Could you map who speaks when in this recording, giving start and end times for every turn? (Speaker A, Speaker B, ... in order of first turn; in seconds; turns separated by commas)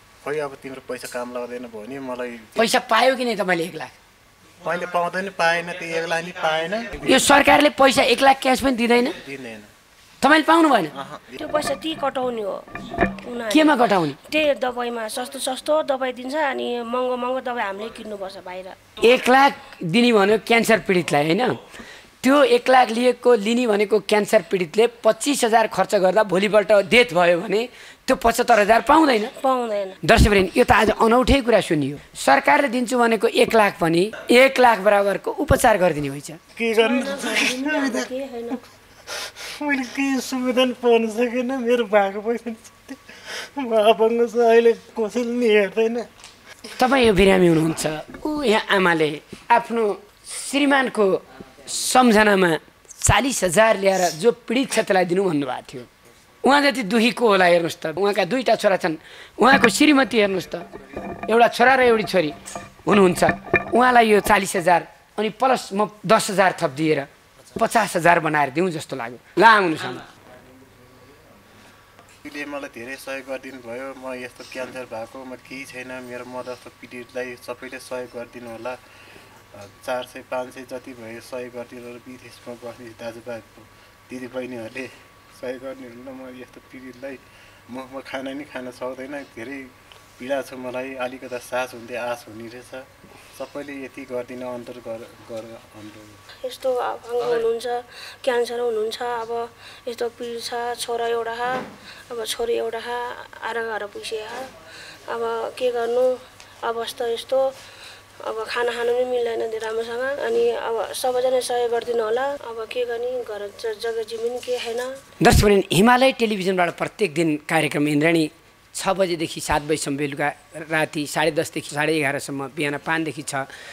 Speaker A: 0.2-2.7, Speaker B: 2.6-4.0, Speaker A: 4.6-7.3, Speaker B: 7.1-9.2, Speaker A: 9.2-9.7, Speaker B: 10.2-10.9, Speaker A: 10.9-11.4, Speaker C: 11.4-12.7, Speaker C: 13.2-18.8, Speaker B: 13.5-14.2, Speaker B: 19.0-21.6, Speaker B: 22.2-29.3, Speaker C: 29.4-30.0, Speaker B: 30.0-36.4, Speaker A: 36.6-38.6, Speaker C: 36.8-38.6, Speaker A: 39.2-46.1, Speaker B: 46.8-55.9, Speaker B: 56.4-60.7, Speaker B: 61.3-70.1, Speaker A: 72.2-78.8, Speaker A: 79.5-96.2, Speaker C: 96.4-104.5, Speaker C: 105.1-107.5, Speaker C: 108.2-114.9, Speaker B: 115.2-123.5